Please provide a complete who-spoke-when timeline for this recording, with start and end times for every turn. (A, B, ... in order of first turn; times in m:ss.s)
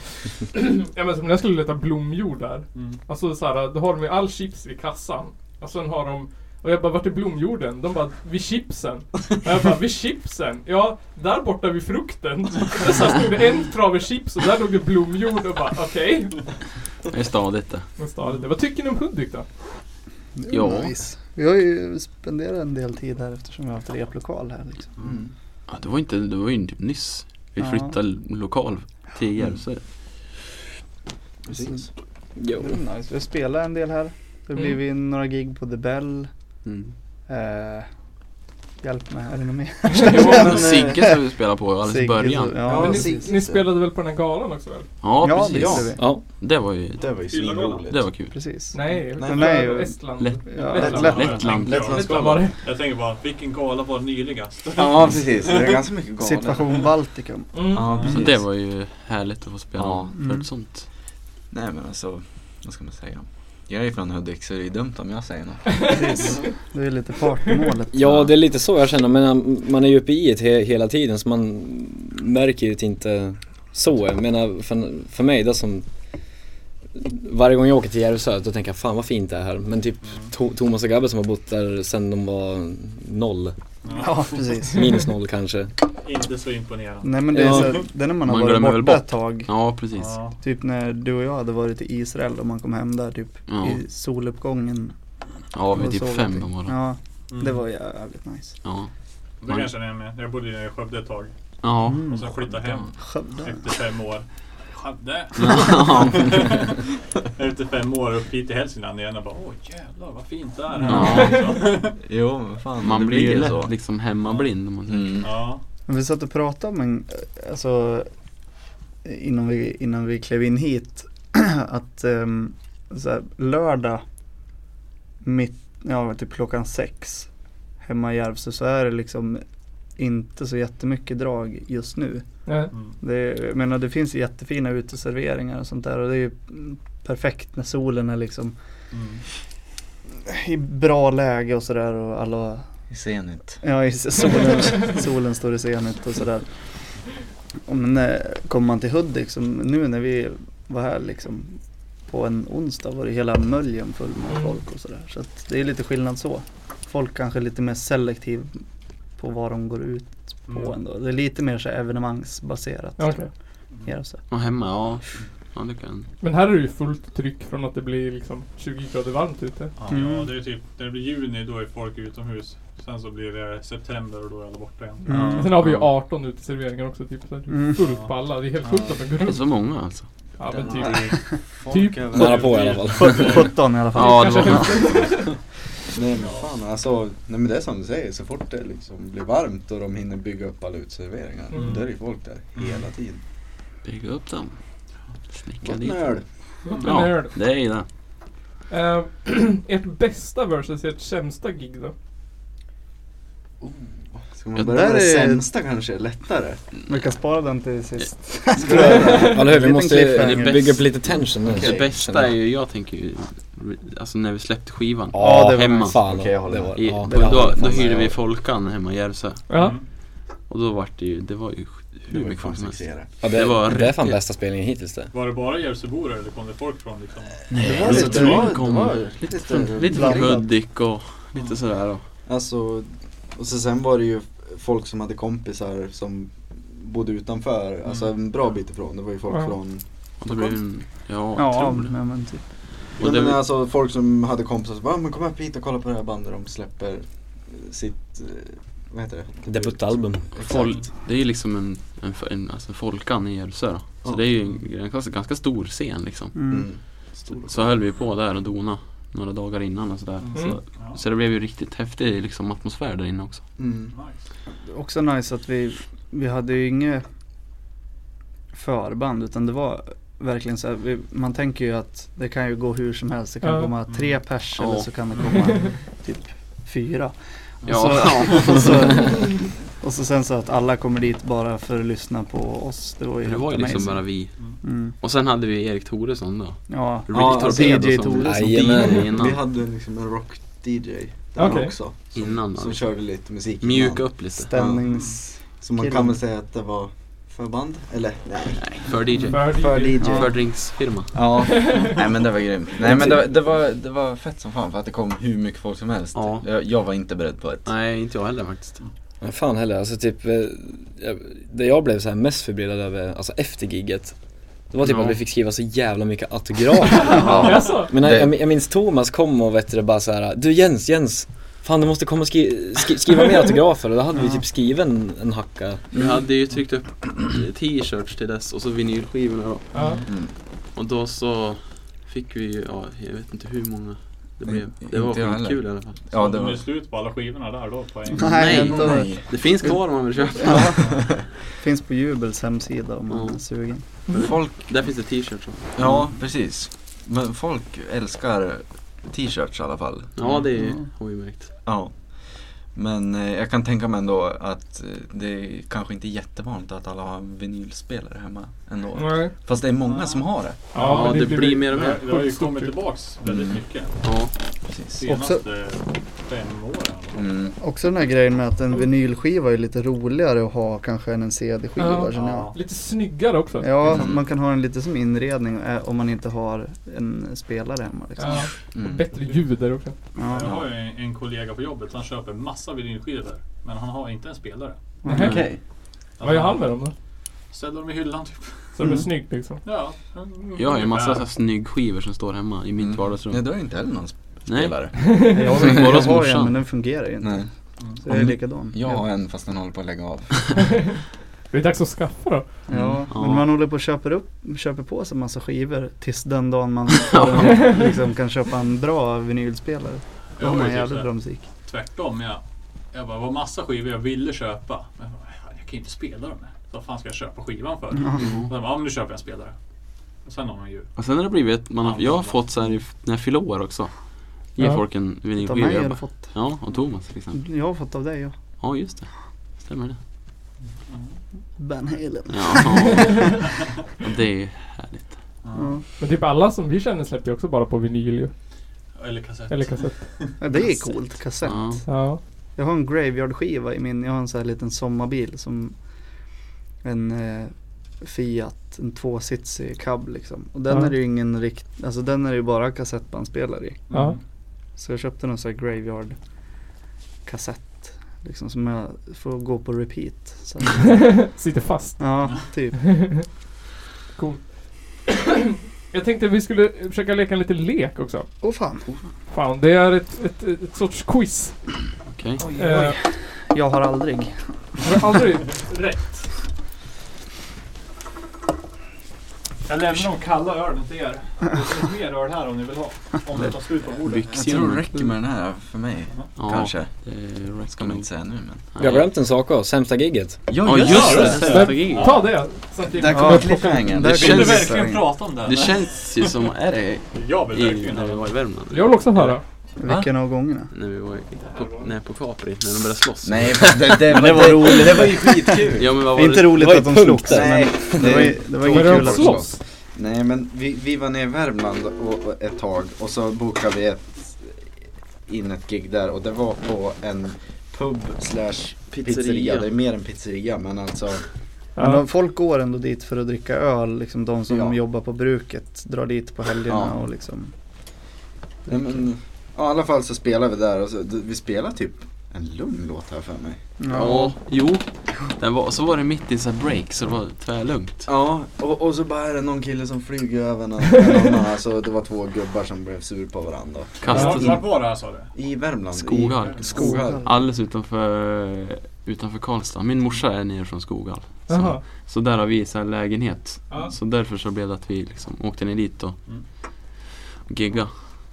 0:00.5-0:16.5 A
0:02.7-0:03.0 B
0:17.1-0:17.9 C
0:18.0-0:19.5 A
0:18.2-0:18.5 B
0:20.4-0:24.9 D
0:20.5-0:20.9 C
0:25.0-0:25.3 E
0:25.7-0:29.8 C
0:27.6-0:27.9 D
0:31.4-0:31.9 E
0:32.4-0:32.8 F
0:32.6-0:36.3 D
0:36.6-0:36.9 C
0:37.3-0:37.9 D
0:38.8-0:41.1 D
0:40.0-0:42.6 C
0:40.2-0:41.0 E
0:41.8-0:43.3 D
0:42.6-0:43.7 E
0:42.7-0:44.9 A
0:45.0-0:47.1 C
0:45.2-0:46.0 D
0:45.5-0:45.9 E
0:46.0-0:46.2 F
0:47.0-0:47.9 B
0:47.0-0:48.0 E
0:47.8-0:48.4 C
0:48.3-0:51.2 D
0:48.7-0:51.4 A
0:49.1-0:49.7 E
0:50.2-0:52.1 C
0:50.8-0:55.8 B
0:50.8-0:52.5 E
0:52.0-0:52.5 A
0:54.7-0:56.6 E
0:56.2-0:57.7 D
0:57.5-0:58.0 A
0:57.7-0:58.4 E
0:57.8-0:58.3 B
0:58.1-1:00.9 C
0:59.8-1:00.1 E
1:00.1-1:00.5 D
1:01.5-1:06.3 E
1:05.9-1:08.2 D
1:07.9-1:15.8 F
1:16.9-1:23.5 F
1:23.8-1:24.7 B
1:24.0-1:24.9 D
1:24.7-1:25.7 F
1:26.0-1:27.8 B
1:27.0-1:29.5 D
1:27.3-1:27.7 F
1:28.2-1:30.2 C
1:29.9-1:30.4 B
1:30.4-1:34.9 D
1:33.5-1:33.8 C
1:35.5-1:36.7 C
1:35.7-1:38.6 D
1:37.3-1:37.6 B
1:38.6-1:38.9 C
1:39.4-1:41.3 B
1:41.6-1:42.2 C
1:41.8-1:42.3 D
1:42.0-1:52.0 B
1:43.0-1:43.6 D
1:45.4-1:46.5 C
1:50.9-1:51.6 C
1:51.1-1:51.4 A
1:52.0-1:53.7 E
1:52.8-1:55.2 C
1:54.9-1:55.3 E
1:55.2-1:55.6 B
1:55.9-1:58.1 D
1:59.0-2:04.0 D
2:05.2-2:07.3 D
2:07.8-2:09.4 D
2:10.0-2:12.2 D
2:12.4-2:12.7 A
2:13.0-2:18.5 D
2:18.9-2:19.2 B
2:20.2-2:22.6 D
2:22.9-2:23.6 E
2:23.6-2:26.4 D
2:27.6-2:38.6 D
2:34.3-2:34.6 A
2:39.2-2:43.3 D
2:40.5-2:40.8 B
2:43.0-2:43.2 A
2:43.8-2:44.2 D
2:44.3-2:46.1 C
2:46.2-2:49.7 A
2:49.7-2:55.6 B
2:49.9-2:50.3 D
2:55.1-2:55.5 D
2:55.1-2:59.4 A
2:55.6-2:55.9 C
2:57.5-2:57.8 D
2:57.8-2:58.9 B
2:59.2-3:00.1 C
3:00.4-3:02.0 A
3:00.5-3:02.7 E
3:00.6-3:01.1 B
3:02.1-3:03.5 F
3:02.2-3:03.5 B
3:02.9-3:04.6 D
3:03.9-3:05.2 C
3:03.9-3:05.3 A
3:05.9-3:13.2 E
3:06.2-3:06.5 B
3:11.5-3:11.9 B
3:12.5-3:12.8 B
3:13.8-3:14.6 C
3:15.3-3:16.2 C
3:15.6-3:16.2 E
3:16.7-3:17.0 B
3:16.8-3:17.4 A
3:16.8-3:17.9 C
3:18.7-3:21.9 A
3:23.6-3:26.6 E
3:24.5-3:25.5 D
3:26.8-3:30.6 D
3:28.6-3:29.3 E
3:29.0-3:29.3 A
3:29.2-3:32.3 F
3:30.2-3:36.0 C
3:31.4-3:31.9 E
3:35.1-3:38.1 F
3:35.2-3:36.0 D
3:36.0-3:36.8 E
3:36.8-3:39.4 C
3:37.0-3:37.6 D
3:37.5-3:38.0 E
3:39.5-3:39.8 A
3:39.5-3:39.8 B
3:40.4-3:44.2 C
3:42.1-3:43.1 E
3:43.2-3:45.1 F
3:45.1-3:47.4 B
3:47.5-3:52.0 C
3:47.6-3:50.4 E
3:47.6-3:48.5 D
3:49.9-3:50.5 D
3:51.3-3:51.6 B
3:52.3-4:00.6 E
4:00.2-4:01.9 C
4:01.4-4:02.4 D
4:03.0-4:03.4 C
4:03.0-4:10.9 E
4:09.5-4:10.6 F
4:10.4-4:16.4 C
4:10.5-4:10.8 B
4:16.3-4:16.7 D
4:16.5-4:17.6 E
4:17.4-4:23.5 C
4:20.2-4:21.0 B
4:20.3-4:20.6 A
4:23.6-4:24.0 E
4:23.9-4:24.2 B
4:24.7-4:27.0 D
4:28.5-4:44.9 D
4:33.4-4:33.7 A
4:33.9-4:34.2 B
4:34.6-4:34.9 C
4:35.2-4:35.4 B
4:37.6-4:38.6 B
4:37.6-4:39.1 C
4:43.2-4:49.4 C
4:46.7-4:48.9 D
4:47.1-4:47.8 E
4:47.7-4:49.1 F
4:49.1-4:54.8 E
4:51.4-4:51.8 A
4:52.1-4:54.5 C
4:54.4-4:56.2 D
4:54.8-4:55.2 B
4:55.4-5:07.7 E
4:58.6-5:01.3 C
4:59.3-5:00.2 A
5:00.0-5:00.3 D
5:01.5-5:01.9 A
5:06.1-5:06.5 C
5:07.6-5:08.8 C
5:09.2-5:14.2 F
5:14.7-5:25.8 F
5:14.8-5:15.2 C
5:17.0-5:17.9 A
5:17.1-5:18.4 E
5:24.1-5:24.4 D
5:25.9-5:26.3 E
5:25.9-5:29.7 C
5:29.7-5:30.0 A
5:30.1-5:30.3 E
5:30.7-5:36.0 C
5:34.4-5:36.7 E
5:36.1-5:39.0 B
5:38.1-5:39.1 D
5:38.3-5:40.9 C
5:38.3-5:39.8 E
5:39.6-5:43.8 D
5:40.4-5:41.1 B
5:40.7-5:41.2 E
5:43.1-5:43.4 C
5:44.1-5:46.0 C
5:44.1-5:44.3 A
5:44.2-5:44.5 E
5:45.7-5:50.1 E
5:50.2-5:51.5 C
5:50.2-5:50.5 B
5:51.6-6:00.7 E
5:59.0-5:59.3 A
5:59.8-6:04.0 B
6:00.7-6:02.9 A
6:00.7-6:02.0 C
6:03.2-6:03.6 E
6:04.0-6:04.3 C
6:04.7-6:05.0 E
6:05.0-6:07.3 B
6:05.0-6:05.4 D
6:07.1-6:07.6 E
6:07.6-6:12.5 D
6:11.8-6:14.0 A
6:12.1-6:12.6 B
6:13.6-6:18.5 D
6:13.9-6:14.2 E
6:18.2-6:20.0 A
6:18.7-6:19.1 E
6:20.2-6:20.6 D
6:20.2-6:24.9 B
6:25.0-6:25.4 D
6:25.1-6:25.5 A
6:25.1-6:25.6 E
6:26.2-6:26.8 B
6:26.2-6:26.9 A
6:27.5-6:28.9 B
6:28.8-6:29.6 A
6:29.6-6:31.3 B
6:30.6-6:33.6 C
6:32.8-6:34.9 E
6:34.4-6:36.5 C
6:35.0-6:35.6 A
6:35.3-6:39.0 D
6:37.2-6:37.5 E
6:38.1-6:40.6 E
6:40.6-6:40.9 A
6:41.5-6:42.5 A
6:42.7-6:51.4 D
6:42.7-6:43.0 E
6:43.1-6:43.4 C
6:47.1-6:47.6 C
6:47.4-6:47.8 A
6:50.4-6:59.5 B
6:58.0-6:58.3 D
6:58.2-6:58.5 C
7:00.2-7:00.9 B
7:01.0-7:07.4 C
7:01.8-7:02.6 B
7:04.6-7:04.8 A
7:05.4-7:06.4 D
7:07.3-7:08.3 D
7:08.6-7:10.0 C
7:10.8-7:11.2 B
7:11.6-7:13.3 D
7:12.3-7:13.4 C
7:14.0-7:15.2 C
7:15.4-7:15.8 B
7:15.5-7:15.8 D
7:16.0-7:18.3 A
7:19.0-7:20.4 B
7:19.5-7:20.0 A
7:20.4-7:25.8 D
7:21.4-7:21.8 C
7:21.9-7:22.2 A
7:26.8-7:34.0 D
7:30.7-7:30.9 A
7:33.9-7:34.2 B
7:34.8-7:36.2 D
7:37.2-7:41.2 D
7:40.8-7:42.2 A
7:42.0-7:42.8 D
7:42.7-7:43.3 A
7:44.2-7:48.5 A
7:48.4-7:48.9 D
7:49.3-7:51.8 A
7:52.0-7:52.4 C
7:52.4-7:55.0 D
7:52.6-7:53.0 A
7:54.8-7:56.3 A
7:59.6-8:04.6 B
8:03.4-8:04.9 C
8:04.3-8:08.6 E
8:06.1-8:06.4 B
8:06.4-8:09.1 C
8:08.8-8:10.9 F
8:10.5-8:12.1 E
8:10.6-8:12.2 C
8:10.8-8:12.4 B
8:11.0-8:13.9 A
8:12.8-8:14.8 E
8:13.1-8:15.1 D
8:14.1-8:16.3 B
8:14.2-8:14.6 C
8:15.4-8:19.4 C
8:17.1-8:18.5 B
8:18.7-8:19.4 A
8:19.8-8:20.7 D
8:20.7-8:26.7 C
8:21.4-8:21.9 B
8:23.2-8:25.9 E
8:23.8-8:25.6 F
8:26.1-8:29.5 D
8:26.4-8:28.2 F
8:27.3-8:34.6 E
8:28.7-8:29.6 A
8:35.3-8:41.2 E
8:38.9-8:39.7 C
8:41.8-8:42.0 A
8:41.8-8:47.5 D
8:44.5-8:44.8 E
8:46.6-8:47.0 E
8:48.7-8:53.6 E
8:48.7-8:48.9 D
8:53.8-8:54.4 D
8:53.9-8:58.1 C
8:58.1-9:04.8 E
9:04.0-9:04.6 C
9:04.1-9:05.3 B
9:04.1-9:04.4 A
9:05.3-9:07.3 E
9:05.9-9:16.2 C
9:06.4-9:06.8 B
9:06.7-9:07.3 D
9:11.5-9:11.8 A
9:17.4-9:17.9 C